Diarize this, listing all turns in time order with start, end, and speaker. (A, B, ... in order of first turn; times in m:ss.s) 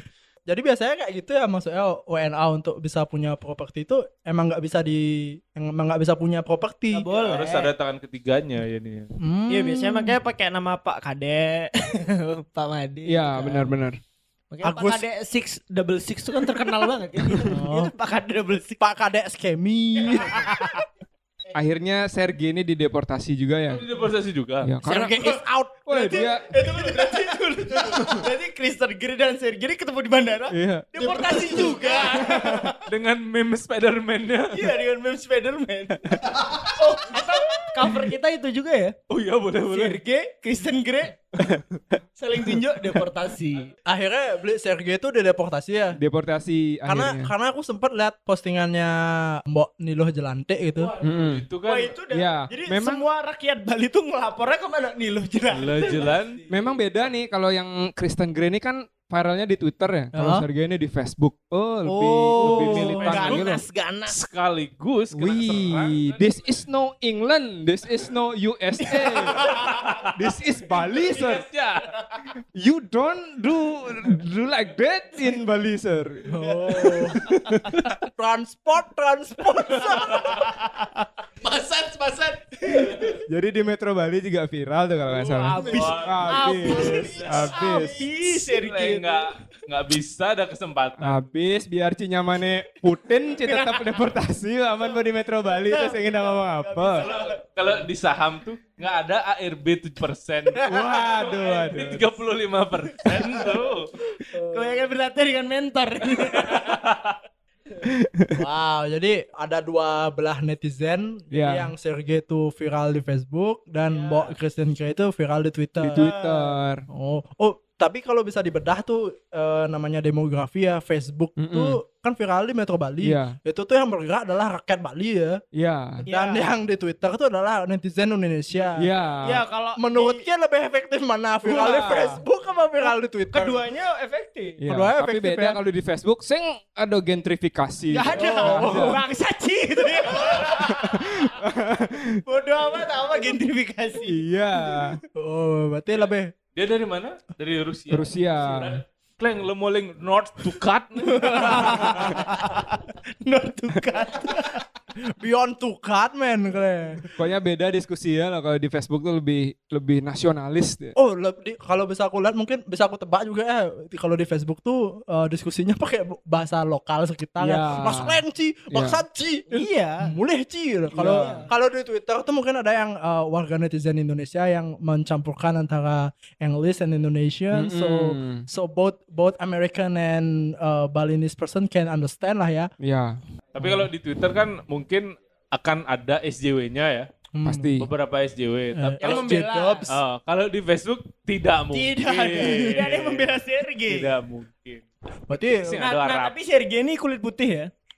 0:00.5-0:07.3 A
0:06.9-0:07.7 B
0:07.2-0:09.1 C
0:09.2-0:10.2 A
0:09.5-0:13.8 B
0:13.1-0:14.0 D
0:14.5-0:18.8 B
0:14.6-0:15.0 A
0:17.5-0:17.9 A
0:18.8-0:20.8 A
0:20.4-0:20.8 B
0:21.5-0:23.8 D
0:23.7-0:24.7 C
0:24.6-0:26.5 D
0:24.8-0:26.2 A
0:25.9-0:32.8 B
0:30.5-0:32.6 D
0:32.9-0:34.7 C
0:34.5-0:39.0 B
0:39.1-0:40.0 C
0:39.7-0:41.2 B
0:42.2-0:43.7 B
0:43.9-0:46.0 A
0:46.0-0:47.3 D
0:46.9-0:50.9 A
0:51.0-0:51.5 D
0:51.1-0:52.0 C
0:51.6-0:56.0 B
0:52.1-0:53.1 D
0:55.5-0:56.4 C
0:56.5-1:03.6 D
1:00.1-1:00.4 A
1:01.8-1:03.2 A
1:02.5-1:03.4 C
1:02.6-1:04.2 B
1:04.1-1:06.0 C
1:05.2-1:11.5 D
1:09.5-1:10.1 C
1:10.8-1:11.9 C
1:12.6-1:16.3 D
1:16.3-1:17.2 A
1:17.1-1:17.8 D
1:18.0-1:20.4 A
1:21.4-1:23.2 E
1:23.3-1:28.0 D
1:25.1-1:29.3 B
1:25.7-1:26.5 C
1:26.7-1:27.8 E
1:28.2-1:31.2 C
1:31.0-1:37.1 D
1:33.4-1:33.9 B
1:35.7-1:37.3 B
1:37.0-1:40.7 C
1:40.6-1:42.1 D
1:41.4-1:43.9 C
1:44.3-1:46.8 B
1:44.4-1:44.8 A
1:46.4-1:47.2 C
1:47.8-1:48.4 D
1:48.4-1:56.2 A
1:51.3-1:51.7 D
1:55.8-1:56.8 D
1:56.9-2:05.4 A
2:01.4-2:01.8 D
2:03.0-2:03.4 D
2:05.6-2:06.1 D
2:06.0-2:08.9 A
2:06.1-2:06.4 B
2:08.8-2:09.4 D
2:09.2-2:10.2 B
2:09.8-2:13.6 A
2:11.5-2:12.2 D
2:11.5-2:12.2 B
2:13.3-2:14.6 B
2:14.6-2:19.0 D
2:14.6-2:15.6 A
2:17.9-2:21.1 B
2:18.1-2:19.0 A
2:20.5-2:22.2 D
2:22.3-2:24.2 B
2:24.0-2:25.0 D
2:25.2-2:26.3 A
2:26.6-2:32.1 C
2:27.9-2:28.8 D
2:31.2-2:34.6 B
2:35.1-2:37.0 A
2:37.2-2:41.0 D
2:41.0-3:02.7 A
2:47.4-2:48.2 D
2:48.7-2:49.0 D
2:49.5-2:50.1 B
2:50.9-2:51.5 B
2:51.0-2:51.4 D
2:57.5-2:58.4 D
3:02.8-3:03.2 D
3:03.6-3:07.1 C
3:03.6-3:03.9 A
3:07.3-3:07.8 A
3:07.4-3:07.9 D
3:07.8-3:09.2 C
3:08.8-3:09.9 A
3:09.0-3:09.9 B
3:09.9-3:16.3 C
3:11.7-3:14.1 B
3:15.3-3:15.8 A
3:15.7-3:17.7 B